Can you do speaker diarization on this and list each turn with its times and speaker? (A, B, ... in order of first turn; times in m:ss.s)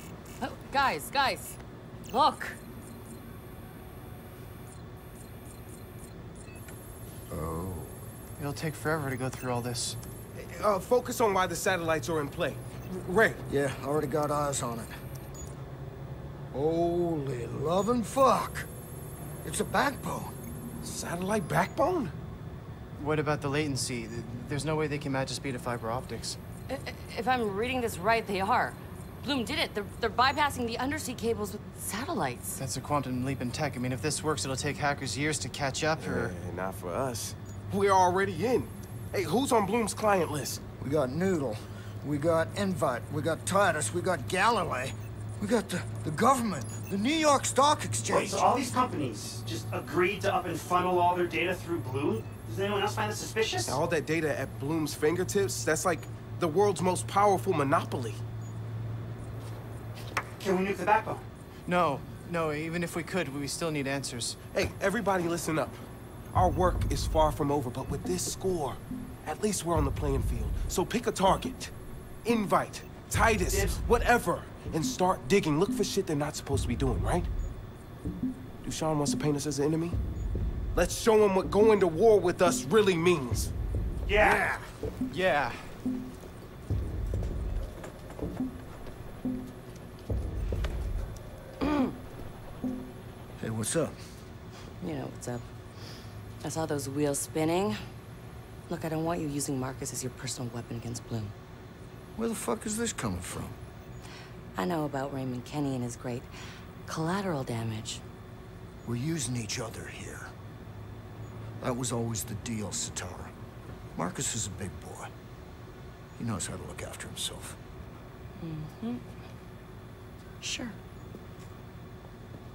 0:00.4-0:01.6 A
0:02.1-0:02.6 A
0:07.3-0:08.0 B
0:08.4-0:10.0 C
0:10.3-0:13.4 D
0:13.5-0:15.0 B
0:16.5-0:18.7 B
0:19.4-0:20.3 B
0:20.8-0:22.1 D
0:23.0-0:26.4 C
0:26.7-0:32.6 A
0:32.6-0:36.3 C
0:36.0-0:40.6 D
0:40.8-0:48.5 B
0:48.1-0:53.8 E
0:53.7-0:58.2 D
1:00.4-1:01.2 E
1:01.7-1:04.4 C
1:04.5-1:05.8 D
1:06.3-1:11.7 D
1:12.2-1:17.3 D
1:13.5-1:13.8 E
1:18.6-1:20.0 D
1:20.7-1:23.5 D
1:24.1-1:24.5 E
1:24.2-1:24.6 C
1:25.1-1:25.6 C
1:33.4-1:33.9 B
1:34.8-1:35.5 A
1:36.4-1:37.8 A
1:38.7-1:41.3 A
1:42.2-1:43.6 B
1:44.6-1:46.3 A
1:46.9-1:48.0 A
1:48.8-1:50.3 B
1:51.6-1:53.3 B
1:54.0-1:55.1 B
1:56.2-1:57.6 B
1:58.4-1:59.0 A
2:00.4-2:00.8 A